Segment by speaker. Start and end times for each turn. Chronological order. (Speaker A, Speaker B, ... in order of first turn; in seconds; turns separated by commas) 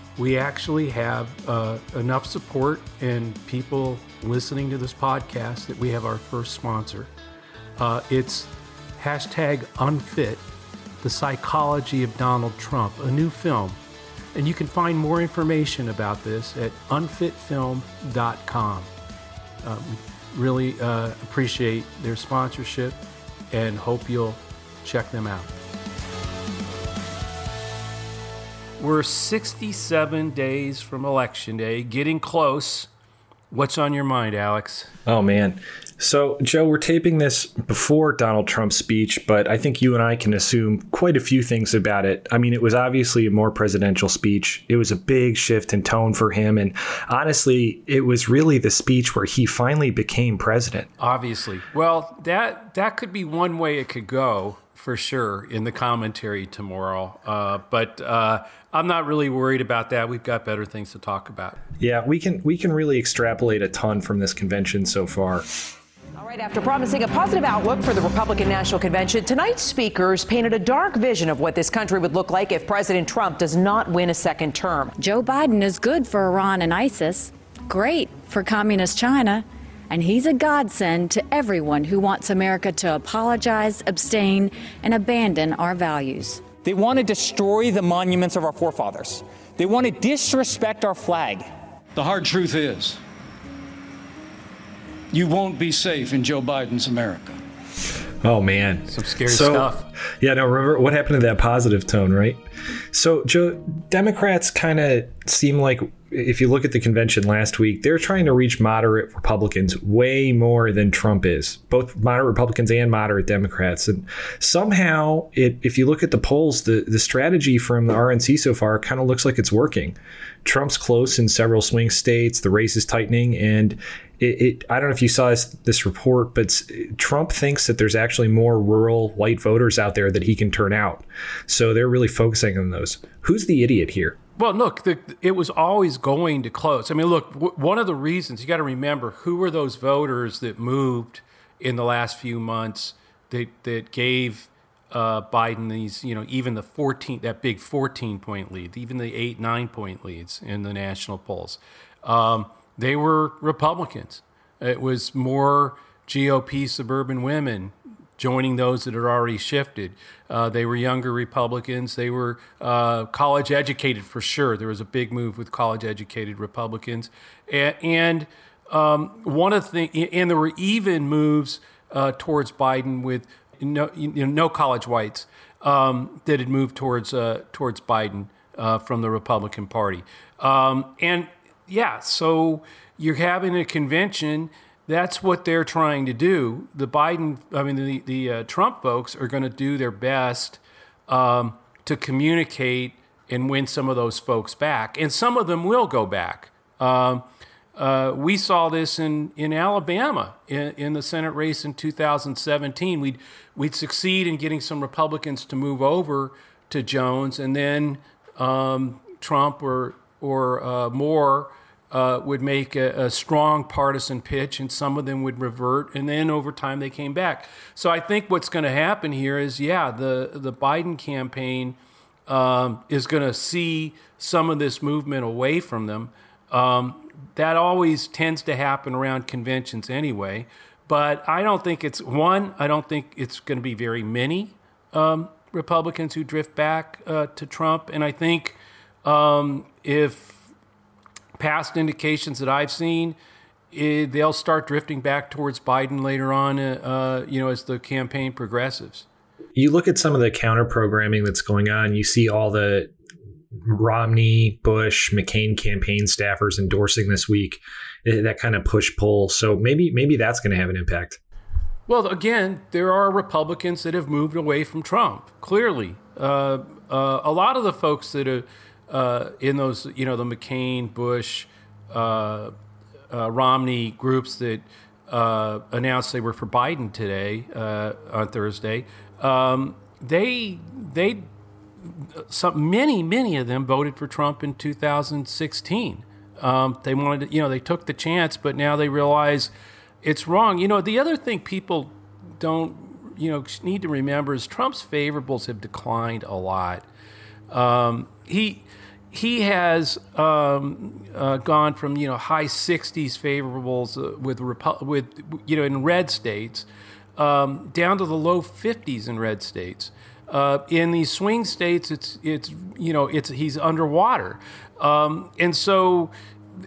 Speaker A: 0.2-7.1, Speaker A: 7.8-10.4, Speaker A: 11.0-13.8, Speaker A: 14.3-18.9, Speaker A: 19.6-23.0, Speaker A: 23.5-25.5, Speaker A: 28.8-32.9, Speaker A: 33.5-34.9, Speaker B: 35.0-50.9, Speaker A: 51.0-61.6, Speaker B: 61.8-65.5, Speaker C: 66.2-74.9, Speaker D: 75.0-86.5, Speaker E: 86.6-91.5, Speaker F: 91.9-93.0, Speaker F: 95.1-97.4, Speaker B: 98.2-102.4, Speaker A: 98.9-99.8, Speaker B: 102.9-134.2, Speaker A: 134.4-197.2, Speaker A: 197.8-240.5, Speaker A: 241.4-243.2, Speaker A: 243.7-249.1, Speaker B: 249.5-252.9, Speaker B: 253.6-261.2, Speaker A: 261.9-272.5, Speaker A: 273.1-281.3, Speaker A: 281.8-289.5, Speaker A: 290.0-296.9, Speaker A: 297.5-316.1